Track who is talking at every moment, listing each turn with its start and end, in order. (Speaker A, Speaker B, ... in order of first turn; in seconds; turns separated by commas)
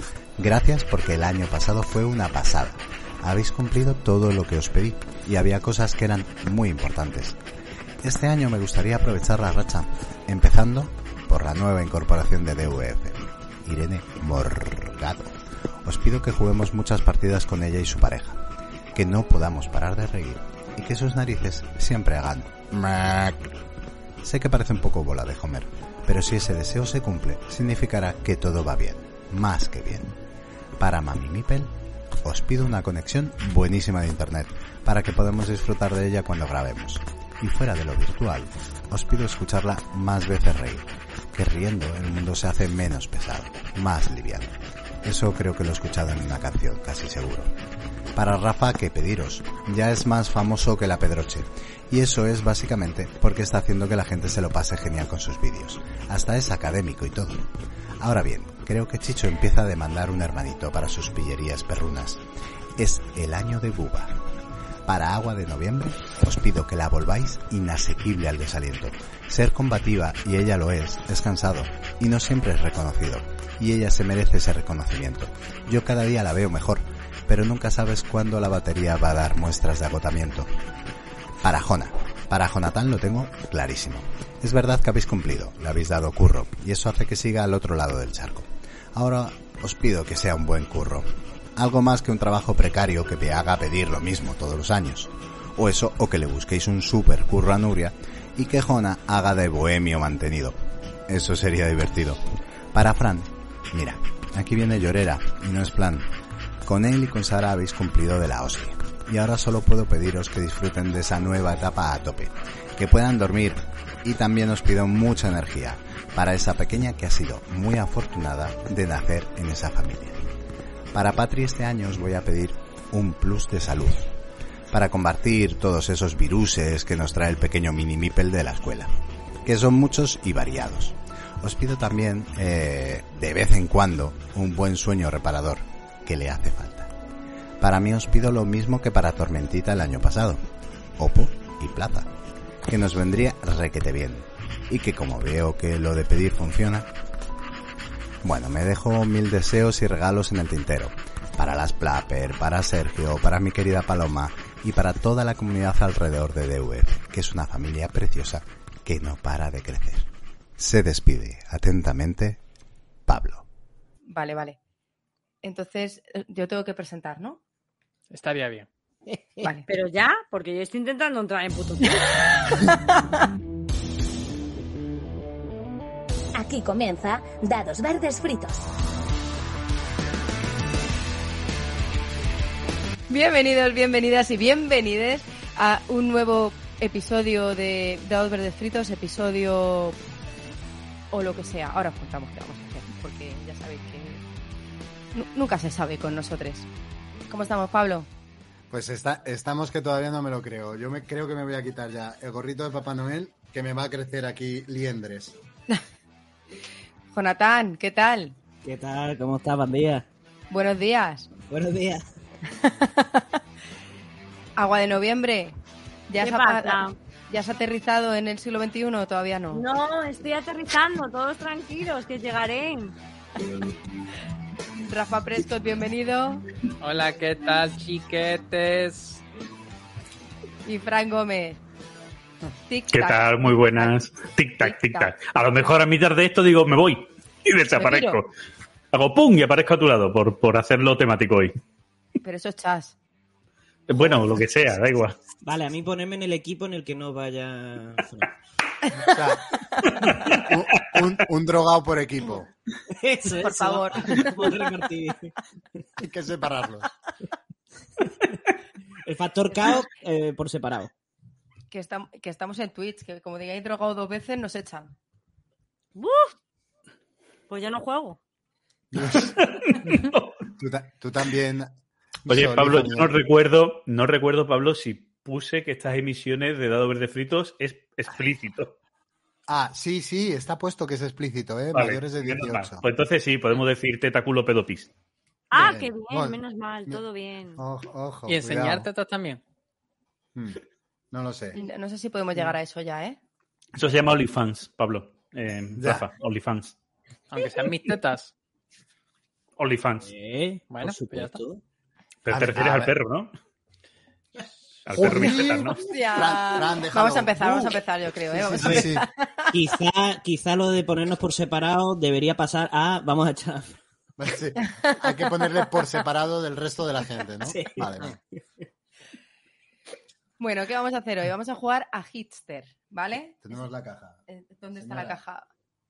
Speaker A: 0.4-7.4, Speaker A: 8.0-15.3, Speaker A: 15.8-18.4, Speaker A: 18.9-23.6, Speaker A: 24.2-30.1, Speaker A: 30.8-31.7, Speaker A: 32.2-47.5, Speaker A: 48.1-57.5, Speaker A: 58.0-62.2, Speaker A: 62.8-64.2, Speaker A: 64.9-80.5, Speaker A: 81.4-102.2, Speaker A: 102.7-106.1, Speaker A: 106.7-120.2, Speaker A: 120.9-124.1, Speaker A: 124.7-128.9, Speaker A: 129.4-136.9, Speaker A: 137.6-140.4, Speaker A: 141.0-142.1, Speaker A: 142.7-146.9, Speaker A: 148.2-162.4, Speaker A: 163.1-163.4, Speaker B: 164.1-164.6, Speaker B: 165.4-167.4, Speaker C: 168.1-168.7, Speaker D: 169.1-169.4, Speaker B: 169.4-169.7, Speaker E: 169.7-172.0, Speaker B: 172.5-172.8, Speaker F: 176.3-178.7, Speaker B: 183.1-190.0, Speaker B: 191.1-194.2, Speaker B: 195.1-196.7, Speaker B: 197.3-198.1, Speaker G: 198.7-205.4, Speaker B: 207.1-208.3, Speaker D: 208.6-210.1, Speaker B: 210.5-211.3, Speaker D: 211.5-212.0, Speaker B: 212.6-213.3, Speaker B: 214.6-215.6, Speaker B: 216.1-219.6, Speaker E: 216.2-217.0, Speaker E: 219.5-223.0, Speaker B: 224.9-226.4, Speaker C: 226.8-229.2, Speaker B: 230.7-231.6, Speaker B: 232.7-233.9, Speaker H: 232.9-238.3, Speaker B: 234.6-235.1, Speaker B: 237.7-238.2, Speaker H: 238.9-241.5, Speaker B: 242.2-243.0, Speaker H: 243.9-245.2, Speaker G: 243.9-244.4, Speaker D: 245.4-248.3, Speaker G: 249.1-249.5, Speaker H: 250.0-251.1, Speaker G: 250.3-252.5, Speaker D: 252.9-255.3, Speaker B: 253.4-254.7, Speaker G: 256.0-256.9, Speaker D: 259.1-260.9, Speaker B: 261.7-264.9, Speaker E: 266.0-266.3, Speaker E: 267.5-268.2, Speaker G: 268.9-269.4, Speaker H: 269.0-270.4, Speaker G: 270.6-271.7, Speaker G: 272.2-273.2, Speaker H: 272.3-278.8, Speaker G: 279.5-282.8, Speaker H: 281.7-284.9, Speaker E: 285.5-287.6, Speaker G: 285.5-287.0, Speaker G: 287.6-288.9, Speaker C: 288.3-289.4, Speaker G: 291.1-291.6, Speaker B: 291.5-293.2, Speaker H: 293.8-296.7, Speaker G: 295.8-296.1, Speaker C: 297.3-298.3, Speaker H: 299.6-300.1, Speaker D: 300.0-301.6, Speaker C: 300.7-301.4, Speaker H: 302.2-303.3, Speaker G: 302.3-302.9, Speaker H: 304.9-305.8, Speaker G: 304.9-307.7, Speaker B: 305.3-309.5, Speaker G: 308.4-309.1, Speaker D: 308.6-309.0, Speaker D: 309.5-313.8, Speaker G: 314.2-318.2, Speaker B: 314.6-315.5, Speaker D: 317.4-318.2, Speaker B: 320.4-323.4, Speaker G: 323.4-324.2, Speaker B: 324.3-325.5, Speaker G: 324.8-325.2